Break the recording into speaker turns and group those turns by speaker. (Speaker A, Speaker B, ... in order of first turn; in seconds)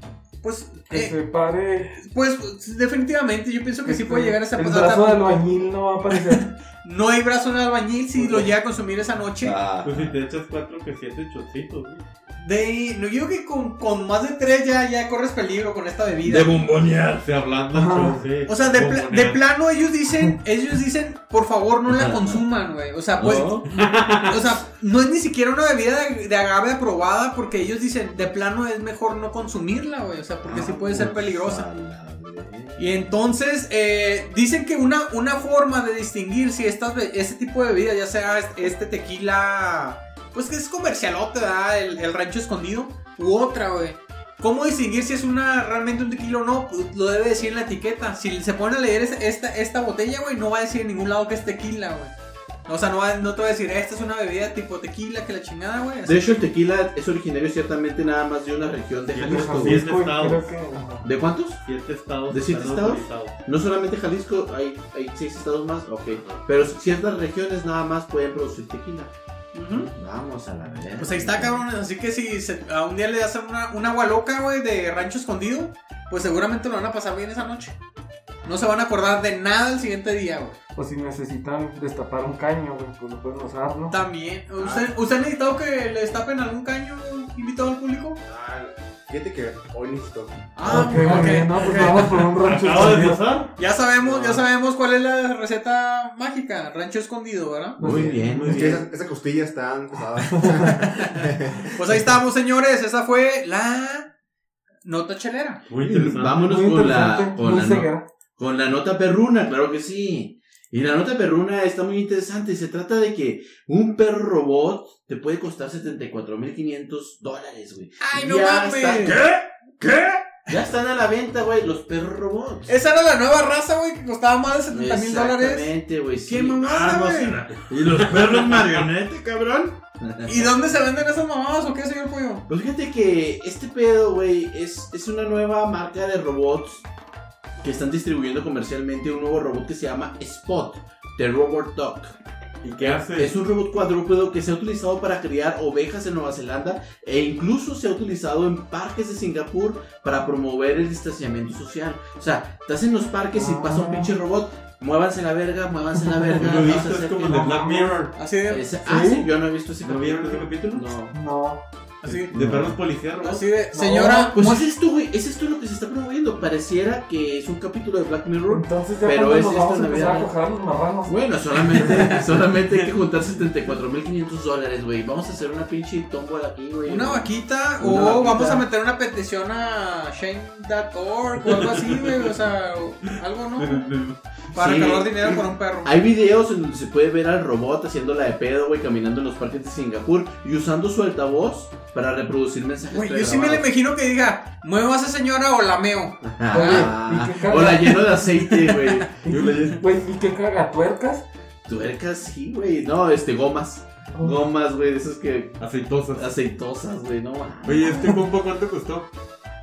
Speaker A: 0.4-1.1, 1.9-5.3, 6.1-9.6, 12.4-16.6, 18.4-23.7, 24.2-31.6, 32.8-52.1, 52.7-56.2, 69.5-69.9, 71.0-77.8, 78.4-80.6, 83.9-88.2, 90.5-92.1, 93.6-97.8, 100.5-101.2, 101.7-104.1, 104.8-105.6, 118.0-119.2, 122.7-125.7, 126.2-127.4, 130.2-132.4, 158.1-158.7, 162.0-162.3, 163.2-164.7, 176.8-183.9, 184.5-185.9, 192.9-196.9, 198.3-199.1
Speaker B: 0.9-1.9, 3.8-6.4, 8.2-8.4, 17.7-18.2, 59.2-61.1, 80.8-84.0, 90.6-93.3, 97.8-98.6, 100.3-100.7, 106.3-108.0, 153.3-154.1, 157.3-158.0, 158.8-159.3, 161.1-161.6, 163.7-164.3, 168.5-171.2, 171.7-172.0, 196.5-198.0, 199.2-201.2, 204.1-204.4
Speaker C: 9.4-10.0, 21.9-22.4, 23.2-23.7, 30.4-32.9, 56.0-59.8, 61.0-61.6, 62.3-69.1, 69.7-71.6, 97.8-98.8, 105.8-119.2, 120.5-122.7, 124.7-126.6, 128.2-128.8, 130.0-130.5, 132.5-136.8, 137.6-142.1, 142.8-157.5, 158.5-161.1, 162.3-162.7, 164.3-170.3, 171.1-178.6, 184.5-193.7, 196.2-199.2, 201.7-208.1
Speaker D: 9.8-12.0, 17.2-19.4, 23.7-24.4, 59.1-60.5, 61.6-63.4, 66.1-66.4, 91.9-93.5, 94.0-94.3, 105.7-106.5, 142.6-143.3, 156.3-158.1, 159.8-160.9, 162.1-163.4, 181.4-182.3, 183.6-184.2, 199.3-199.8, 205.6-206.3, 207.6-209.1
Speaker E: 16.2-17.3, 119.0-120.4, 126.7-129.7
Speaker F: 84.6-84.9, 88.2-90.9, 98.5-101.7